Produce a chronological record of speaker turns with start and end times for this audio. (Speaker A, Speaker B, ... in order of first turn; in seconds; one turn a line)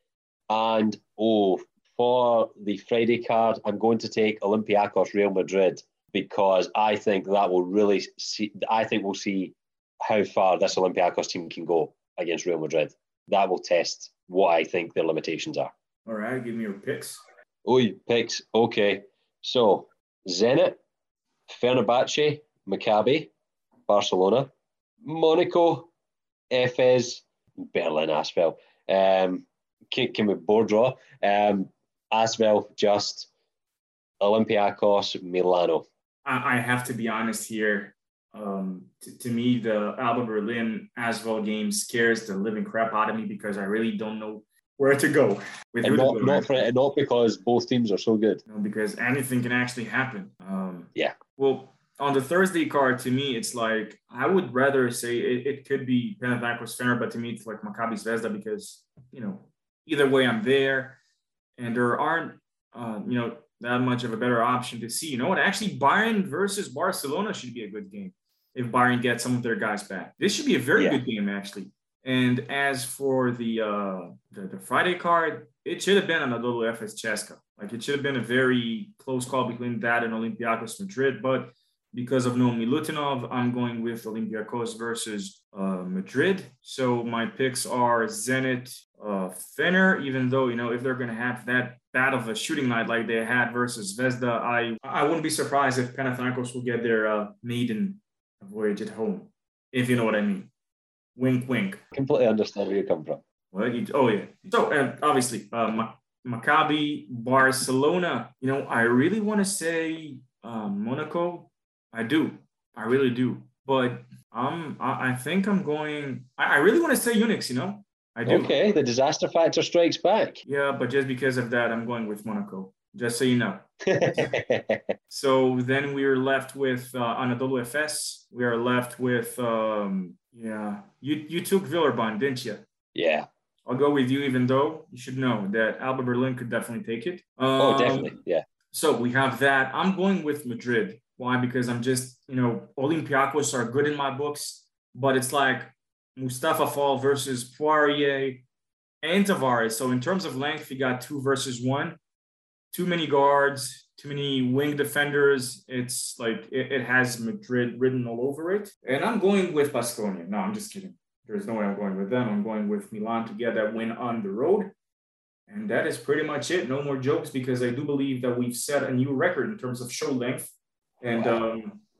Speaker A: 0.5-15.7
Speaker B: 16.1-17.2
Speaker A: 17.6-20.8
Speaker A: 21.5-23.3
Speaker A: 23.9-24.5
Speaker A: 25.0-25.9
Speaker A: 26.5-33.3
Speaker A: 34.2-35.9
Speaker B: 36.2-46.6
Speaker A: 45.8-48.4
Speaker B: 48.5-61.0
Speaker B: 61.6-100.5
Speaker A: 70.8-71.0
Speaker B: 101.2-101.8
Speaker A: 101.9-103.2
Speaker B: 103.5-118.5
Speaker A: 118.3-120.4
Speaker B: 120.5-124.3
Speaker A: 123.8-125.0
Speaker B: 125.1-132.6
Speaker A: 132.9-133.3
Speaker B: 133.7-138.2
Speaker A: 137.6-138.4
Speaker B: 138.7-148.4
Speaker B: 149.0-152.0
Speaker B: 152.7-164.7
Speaker B: 165.5-171.8
Speaker A: 171.1-171.4